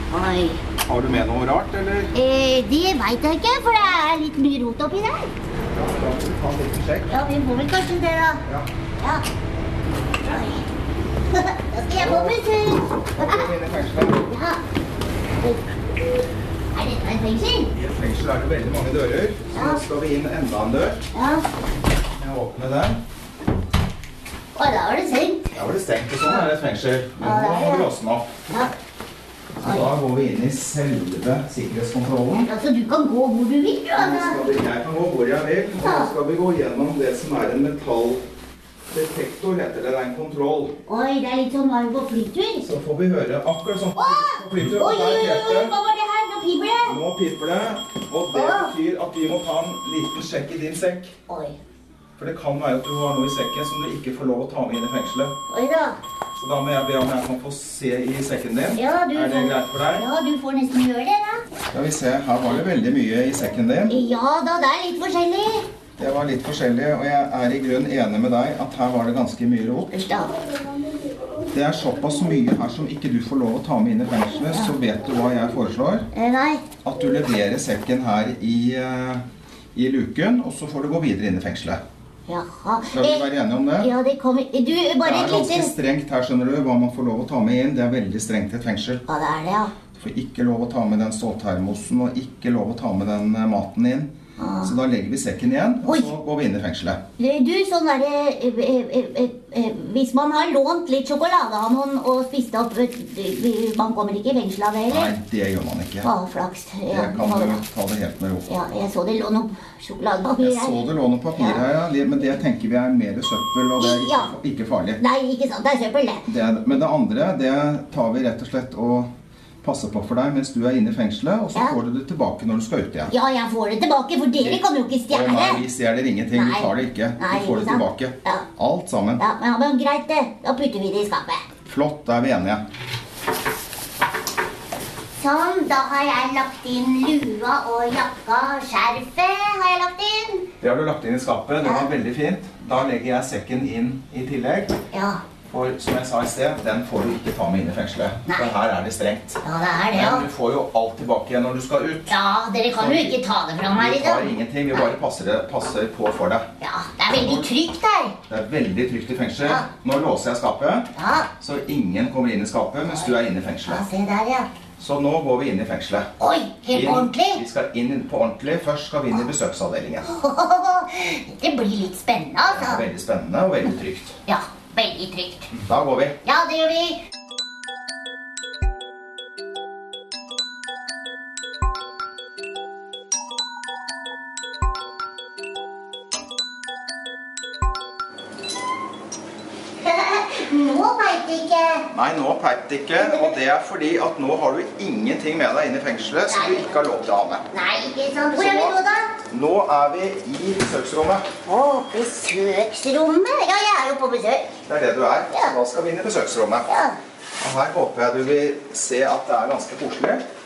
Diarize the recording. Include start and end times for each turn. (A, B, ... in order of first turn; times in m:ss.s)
0:00.1-0:00.6 A
0:00.9-0:02.1 B
0:02.1-0:05.3 A
0:05.7-0:07.1 B
0:07.1-0:08.4 A
0:09.0-0:09.2 A
0:10.2-0:10.7 A
0:11.3-0:13.5 A
0:12.0-0:12.5 B
0:13.1-0:14.2 B
0:14.2-0:14.6 A
0:15.4-0:15.7 A
0:16.7-0:17.7 A
0:17.8-0:21.0 B
0:19.5-0:19.8 A
0:21.1-0:21.5 A
0:22.2-0:23.0 B
0:24.6-0:25.5 A
0:25.5-0:28.4 B
0:27.2-0:27.9 A
0:28.5-0:28.8 A
0:29.6-0:32.5 B
0:29.6-0:29.9 A
0:32.5-0:34.4 A
0:34.0-0:38.2 B
0:35.8-0:36.1 A
0:38.9-0:40.8 B
0:40.9-0:42.7 A
0:42.6-0:45.7 B
0:44.0-0:47.0 A
0:46.9-0:51.1 B
0:48.3-0:48.7 A
0:51.3-0:51.6 A
0:52.2-0:55.4 B
0:55.5-0:56.0 A
0:56.4-1:00.1 B
0:58.7-1:01.4 A
1:01.7-1:04.0 B
1:03.9-1:05.7 A
1:06.0-1:10.1 B
1:09.9-1:10.3 A
1:11.5-1:16.1 B
1:16.1-1:16.6 A
1:16.8-1:21.8 B
1:22.3-1:23.3 A
1:22.9-1:23.9 B
1:23.8-1:25.7 A
1:25.0-1:29.0 B
1:29.1-1:29.7 A
1:30.0-1:37.0 B
1:34.4-1:34.7 A
1:37.2-1:45.1 A
1:44.9-1:46.1 B
1:46.0-1:47.6 A
1:46.9-1:48.5 B
1:48.5-1:50.8 A
1:50.4-1:55.0 B
1:51.4-1:51.6 A
1:53.8-1:54.3 A
1:55.0-1:56.2 A
1:56.3-1:59.1 B
1:59.6-2:03.1 B
2:03.1-2:05.6 A
2:04.4-2:09.2 B
2:06.3-2:08.5 A
2:09.2-2:11.4 A
2:11.6-2:12.6 B
2:15.2-2:20.5 A
2:20.6-2:24.8 B
2:24.9-2:25.2 A
2:25.5-2:32.2 B
2:29.4-2:30.3 A
2:32.1-2:34.8 A
2:32.8-2:33.2 B
2:33.7-2:36.5 B
2:36.6-2:38.2 A
2:37.1-2:37.5 B
2:38.3-2:43.9 B
2:41.0-2:41.3 A
2:43.7-2:44.5 A
2:44.8-2:46.1 B
2:46.2-2:47.4 A
2:46.7-2:50.1 B
2:50.1-2:52.8 A
2:52.5-2:54.2 B
2:54.3-2:55.5 A
2:55.5-2:56.2 B
2:56.2-2:57.0 A
3:09.8-3:11.9 A
3:11.9-3:17.4 B
3:13.0-3:13.3 A
3:16.3-3:16.8 A
3:17.5-3:19.1 A
3:18.4-3:18.8 B
3:19.3-3:21.3 B
3:21.5-3:24.5 A
3:24.7-3:26.7 B
3:26.7-3:27.0 A
3:27.4-3:30.2 B